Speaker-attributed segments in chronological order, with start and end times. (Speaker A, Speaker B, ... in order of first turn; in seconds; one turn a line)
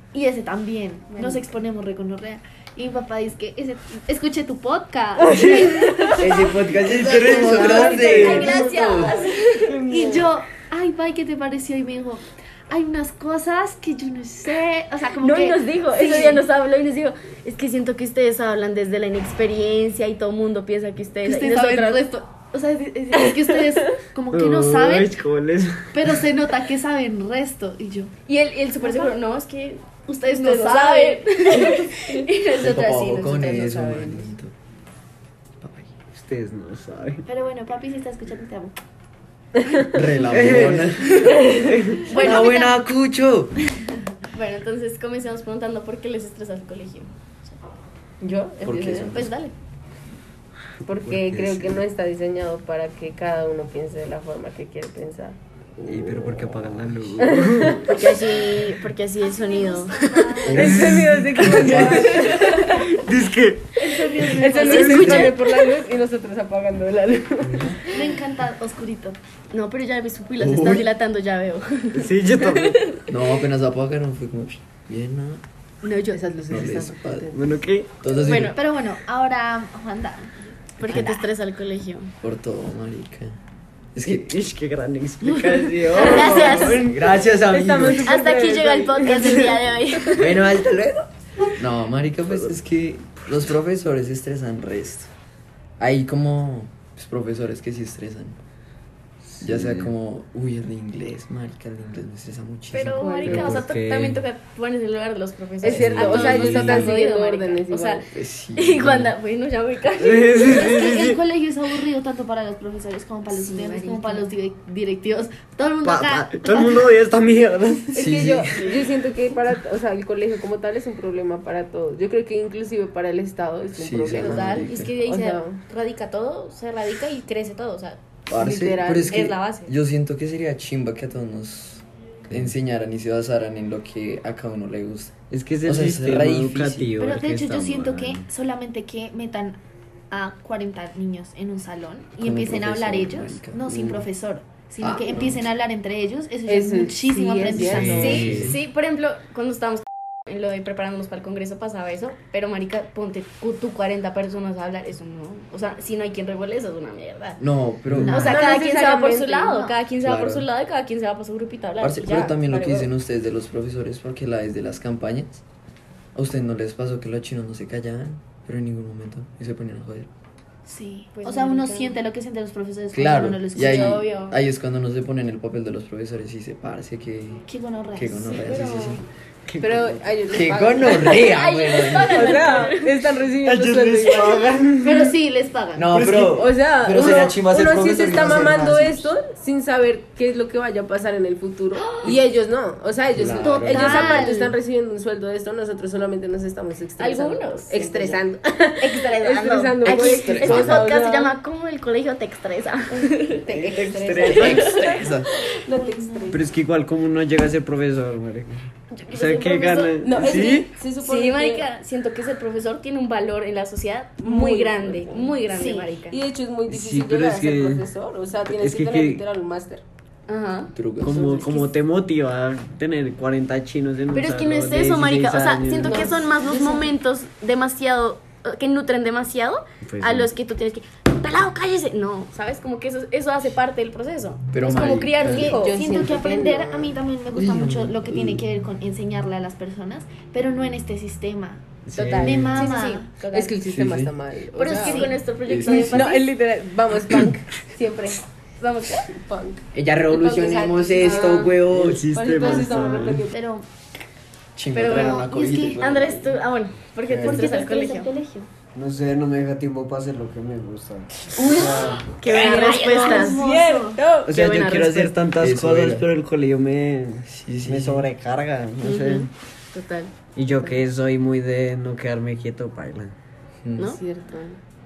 Speaker A: 0.1-9.1
Speaker B: 1.1-1.4
Speaker C: 5.3-8.7
Speaker D: 6.5-9.2
Speaker B: 7.7-9.8
Speaker C: 9.5-10.3
Speaker A: 9.9-16.4
Speaker B: 15.2-22.0
Speaker A: 21.2-25.2
Speaker C: 24.3-26.2
Speaker A: 25.9-28.1
Speaker B: 28.3-34.1
Speaker A: 28.8-29.1
Speaker A: 30.1-31.9
Speaker D: 32.5-34.5
Speaker D: 35.6-36.0
Speaker C: 36.1-37.2
Speaker A: 37.3-38.8
Speaker D: 39.9-41.4
Speaker C: 40.2-42.1
Speaker B: 42.1-42.7
Speaker A: 42.1-42.6
Speaker D: 42.1-43.5
Speaker B: 44.3-47.6
Speaker E: 48.2-49.1
Speaker D: 48.6-49.3
Speaker B: 49.1-49.5
Speaker E: 50.9-55.4
Speaker C: 51.0-51.8
Speaker C: 55.8-58.0
Speaker E: 57.2-58.5
Speaker B: 57.8-60.0
Speaker A: 59.2-60.8
Speaker D: 60.5-62.3
Speaker C: 60.5-62.0
Speaker E: 60.5-62.8
Speaker B: 62.1-62.9
Speaker C: 62.6-63.8
Speaker B: 63.8-65.6
Speaker A: 63.8-65.3
Speaker E: 64.2-67.8
Speaker C: 64.5-65.3
Speaker D: 67.4-67.8
Speaker A: 67.9-69.2
Speaker B: 69.5-73.1
Speaker D: 70.4-70.9
Speaker C: 71.9-72.8
Speaker D: 73.1-75.4
Speaker B: 75.8-76.2
Speaker E: 76.1-77.6
Speaker D: 76.5-77.3
Speaker C: 77.3-77.9
Speaker D: 78.0-78.6
Speaker B: 78.1-78.6
Speaker A: 78.4-80.3
Speaker B: 80.8-82.1
Speaker A: 80.8-81.2
Speaker D: 80.9-81.2
Speaker D: 82.2-83.4
Speaker D: 84.0-84.4
Speaker C: 84.0-87.3
Speaker A: 85.4-86.5
Speaker B: 85.9-86.9
Speaker E: 85.9-90.3
Speaker D: 86.9-88.2
Speaker B: 87.9-90.3
Speaker D: 90.2-95.1
Speaker D: 95.8-98.4
Speaker C: 99.3-99.9
Speaker D: 99.4-103.5
Speaker B: 102.7-108.0
Speaker E: 103.0-103.5
Speaker C: 103.2-104.2
Speaker E: 105.6-108.1
Speaker C: 105.7-106.9
Speaker D: 108.1-109.2
Speaker B: 108.6-111.1
Speaker C: 110.0-111.2
Speaker A: 110.5-116.9
Speaker B: 113.3-114.3
Speaker C: 115.8-118.6
Speaker D: 117.9-118.7
Speaker E: 117.9-125.6
Speaker D: 123.8-124.9
Speaker B: 124.1-128.0
Speaker D: 128.3-136.9
Speaker E: 128.3-129.3
Speaker B: 129.1-129.7
Speaker C: 135.3-138.3
Speaker A: 137.0-139.6
Speaker A: 140.1-148.4
Speaker D: 142.2-143.7
Speaker C: 143.7-144.0
Speaker D: 144.8-145.4
Speaker E: 146.5-148.3
Speaker D: 147.5-148.6
Speaker C: 147.7-148.6
Speaker B: 148.0-157.4
Speaker D: 157.4-158.4
Speaker C: 157.9-158.2
Speaker A: 158.0-158.6
Speaker B: 158.1-162.9
Speaker E: 158.2-159.5
Speaker A: 159.4-159.8
Speaker D: 160.0-160.5
Speaker D: 161.8-165.4
Speaker D: 166.2-170.1
Speaker A: 170.7-174.1
Speaker B: 171.1-172.0
Speaker D: 172.9-179.0
Speaker B: 173.5-174.4
Speaker A: 177.5-178.7
Speaker B: 178.3-179.0
Speaker C: 179.5-179.9
Speaker E: 179.6-184.6
Speaker D: 180.3-182.6
Speaker B: 181.1-182.9
Speaker C: 183.4-185.2
Speaker A: 184.8-186.0
Speaker D: 185.8-189.1
Speaker C: 185.9-186.4
Speaker E: 186.2-201.3
Speaker C: 193.2-194.3
Speaker A: 193.4-194.5
Speaker B: 197.0-198.2
Speaker B: 198.8-203.5
Speaker A: 199.8-200.3
Speaker D: 200.1-200.9
Speaker E: 203.0-206.4
Speaker C: 203.5-204.8
Speaker B: 204.2-205.1
Speaker D: 204.9-205.3
Speaker A: 205.7-206.4
Speaker C: 206.3-210.7
Speaker B: 209.0-210.4
Speaker E: 210.0-211.7
Speaker B: 211.0-216.2
Speaker E: 214.2-215.4
Speaker A: 215.5-215.9
Speaker E: 216.1-219.8
Speaker C: 216.7-217.9
Speaker C: 218.5-219.2
Speaker B: 220.3-220.7
Speaker D: 220.7-221.3
Speaker C: 221.0-226.2
Speaker E: 221.1-221.6
Speaker B: 224.1-235.8
Speaker E: 225.8-226.8
Speaker C: 229.8-230.3
Speaker D: 234.5-235.6
Speaker A: 235.2-241.7
Speaker E: 235.4-237.0
Speaker D: 237.3-238.4
Speaker C: 241.9-242.7
Speaker B: 241.9-243.6
Speaker A: 242.2-243.1
Speaker E: 243.3-248.2
Speaker D: 243.6-244.1
Speaker B: 244.6-246.3
Speaker A: 244.7-245.2
Speaker D: 245.5-246.1
Speaker B: 248.6-249.1
Speaker E: 249.0-251.6
Speaker D: 249.7-252.5
Speaker B: 251.0-251.5
Speaker C: 251.7-253.3
Speaker E: 252.1-253.4
Speaker A: 252.5-253.7
Speaker D: 254.6-256.4
Speaker B: 254.7-258.1
Speaker A: 254.9-255.8
Speaker D: 257.1-257.5
Speaker A: 257.2-258.5
Speaker C: 258.8-262.1
Speaker E: 261.4-264.4
Speaker B: 261.4-263.4
Speaker A: 262.2-264.0
Speaker C: 264.2-269.3
Speaker D: 264.4-266.1
Speaker D: 267.3-268.1
Speaker B: 268.8-270.1
Speaker C: 270.4-273.1
Speaker D: 273.6-274.0
Speaker E: 274.0-274.6